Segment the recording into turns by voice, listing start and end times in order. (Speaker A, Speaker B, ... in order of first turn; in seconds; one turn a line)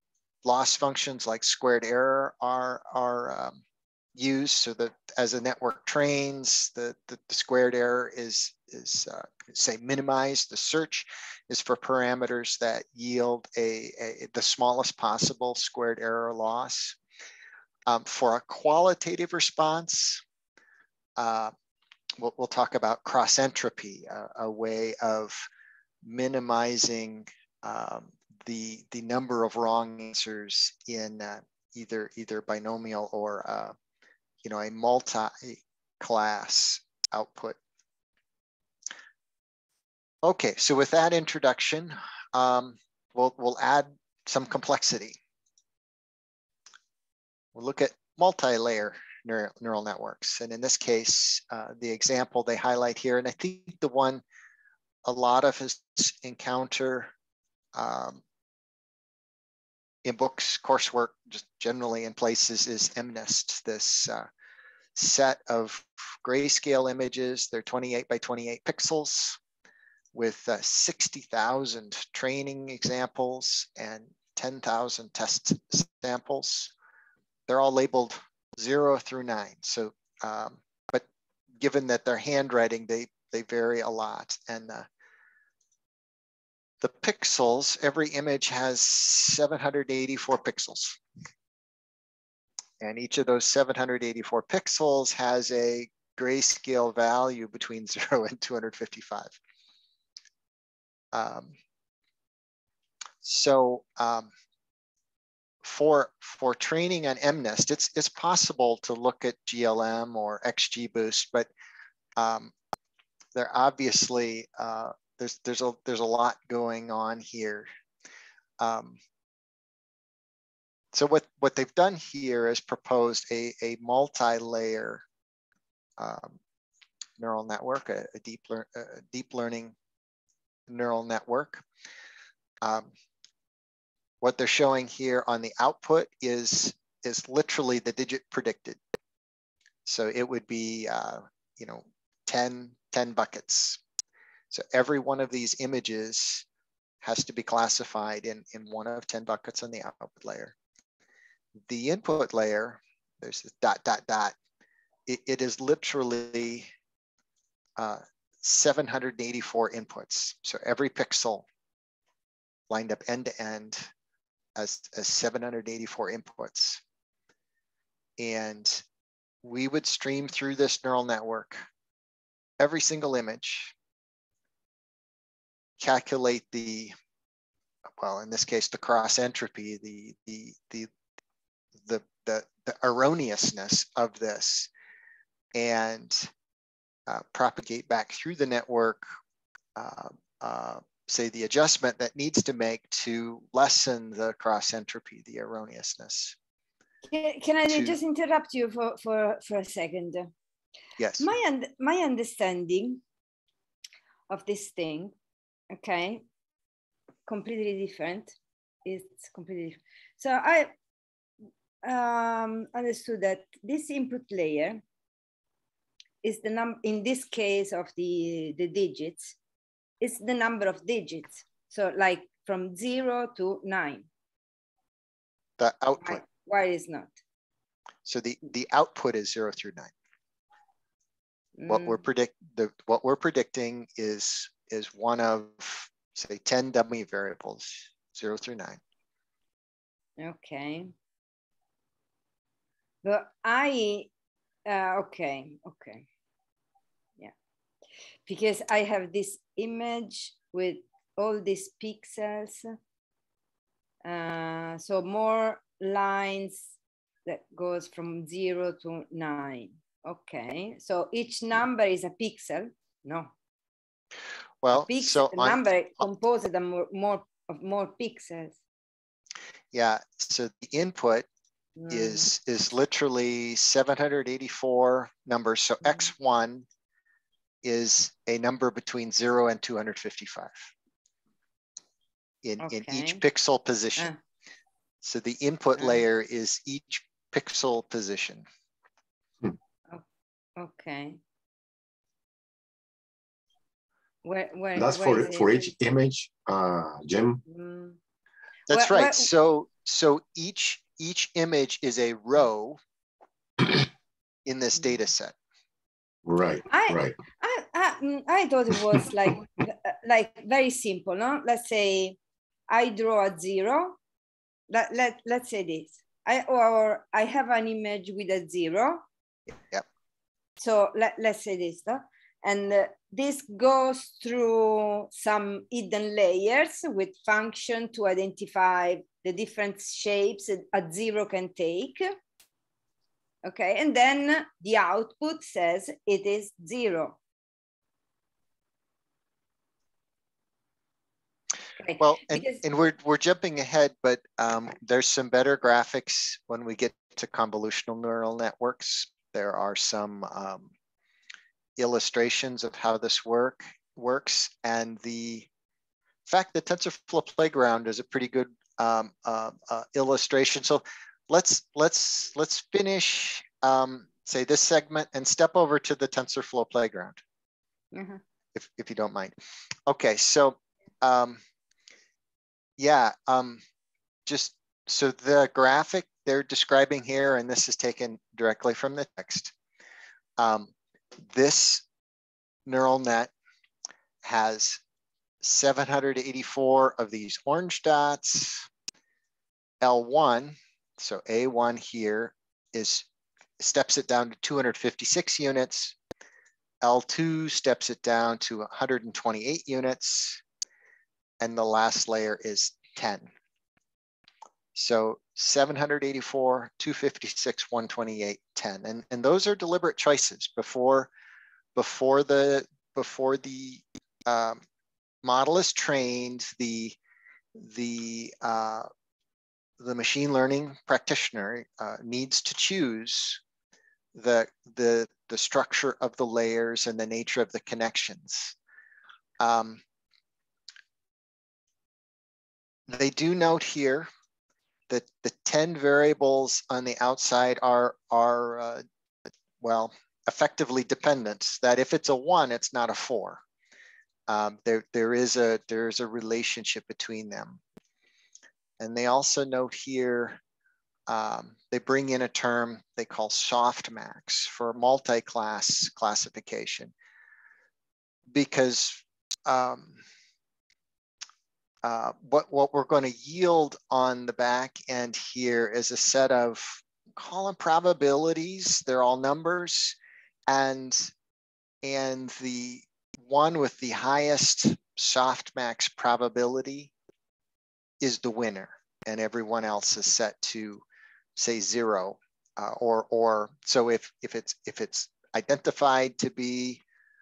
Speaker A: 0.4-3.6
Speaker A: 4.1-17.0
Speaker A: 17.9-20.2
Speaker A: 21.2-21.5
Speaker A: 22.2-25.4
Speaker A: 26.0-33.7
Speaker A: 34.4-37.6
Speaker A: 40.2-45.2
Speaker A: 47.5-54.2
Speaker A: 55.0-57.1
Speaker A: 57.7-58.2
Speaker A: 60.0-64.3
Speaker A: 64.9-69.4
Speaker A: 70.1-76.7
Speaker A: 77.5-81.0
Speaker A: 81.6-84.8
Speaker A: 86.8-91.0
Speaker A: 92.8-99.4
Speaker A: 101.1-101.5
Speaker A: 103.2-104.3
Speaker A: 105.6-111.5
Speaker A: 112.2-112.5
Speaker A: 113.3-117.7
Speaker A: 118.6-119.0
Speaker A: 120.9-125.0
Speaker A: 126.0-126.4
Speaker A: 127.2-129.7
Speaker A: 130.7-131.6
Speaker A: 132.6-132.9
Speaker A: 134.2-138.8
Speaker A: 139.8-143.8
Speaker A: 144.5-146.4
Speaker A: 147.0-150.5
Speaker A: 151.7-154.3
Speaker A: 155.1-156.7
Speaker A: 157.8-161.4
Speaker A: 162.7-163.9
Speaker A: 164.5-166.8
Speaker A: 168.2-168.8
Speaker A: 169.4-171.6
Speaker A: 172.6-173.7
Speaker A: 175.8-176.9
Speaker A: 178.0-180.9
Speaker A: 181.8-184.7
Speaker A: 185.5-186.3
Speaker A: 187.1-189.1
Speaker A: 189.8-196.3
Speaker B: 197.1-200.3
Speaker A: 197.7-198.0
Speaker A: 201.0-201.3
Speaker B: 201.2-203.0
Speaker B: 204.3-205.1
Speaker B: 205.7-206.2
Speaker B: 207.3-210.7
Speaker B: 211.8-214.8
Speaker B: 216.2-219.3
Speaker B: 220.0-224.1
Speaker A: 225.6-226.2
Speaker B: 226.0-227.1
Speaker A: 228.0-229.9
Speaker B: 231.6-232.0
Speaker A: 231.7-238.8
Speaker B: 240.2-240.9
Speaker B: 243.0-244.1
Speaker B: 244.7-246.0
Speaker B: 248.2-252.7
Speaker B: 254.0-256.7
Speaker B: 257.2-263.3
Speaker A: 264.6-265.6
Speaker B: 264.9-268.6
Speaker A: 269.7-271.2
Speaker B: 271.8-272.3
Speaker A: 271.9-276.6
Speaker B: 275.8-276.1
Speaker A: 277.6-280.7
Speaker A: 282.4-284.1
Speaker B: 282.6-283.2
Speaker A: 285.0-288.4
Speaker B: 285.8-286.0
Speaker B: 290.6-291.2
Speaker B: 294.2-295.7
Speaker C: 294.8-297.4
Speaker B: 297.5-298.0
Speaker A: 298.7-302.8
Speaker B: 298.7-299.3
Speaker A: 304.4-305.3
Speaker C: 306.2-307.1
Speaker B: 306.7-312.2
Speaker B: 312.7-314.0
Speaker B: 314.7-319.0
Speaker B: 320.6-332.1
Speaker B: 333.4-337.2
Speaker B: 341.8-342.6
Speaker A: 342.0-350.7
Speaker A: 351.8-355.5
Speaker A: 356.2-367.2
Speaker B: 367.9-368.2
Speaker A: 368.5-369.3
Speaker A: 369.9-371.4
Speaker A: 372.8-373.6
Speaker A: 374.2-379.5
Speaker A: 380.4-381.8
Speaker A: 382.6-383.3
Speaker A: 384.2-384.8
Speaker A: 385.4-388.7
Speaker A: 389.8-393.1
Speaker A: 393.6-395.9
Speaker A: 396.8-400.4
Speaker A: 401.4-403.3
Speaker A: 404.7-411.1
Speaker A: 411.7-414.6
Speaker A: 415.2-417.0
Speaker A: 417.6-418.9
Speaker A: 419.8-423.4
Speaker A: 424.1-428.6
Speaker A: 429.4-429.8
Speaker A: 432.9-434.1
Speaker A: 434.9-438.8
Speaker A: 439.6-443.4
Speaker A: 444.3-447.6
Speaker A: 448.8-450.4
Speaker A: 451.1-456.9
Speaker A: 458.3-460.0
Speaker A: 461.8-470.0
Speaker A: 470.5-471.1
Speaker A: 471.8-476.9
Speaker A: 478.0-480.8
Speaker A: 481.4-486.8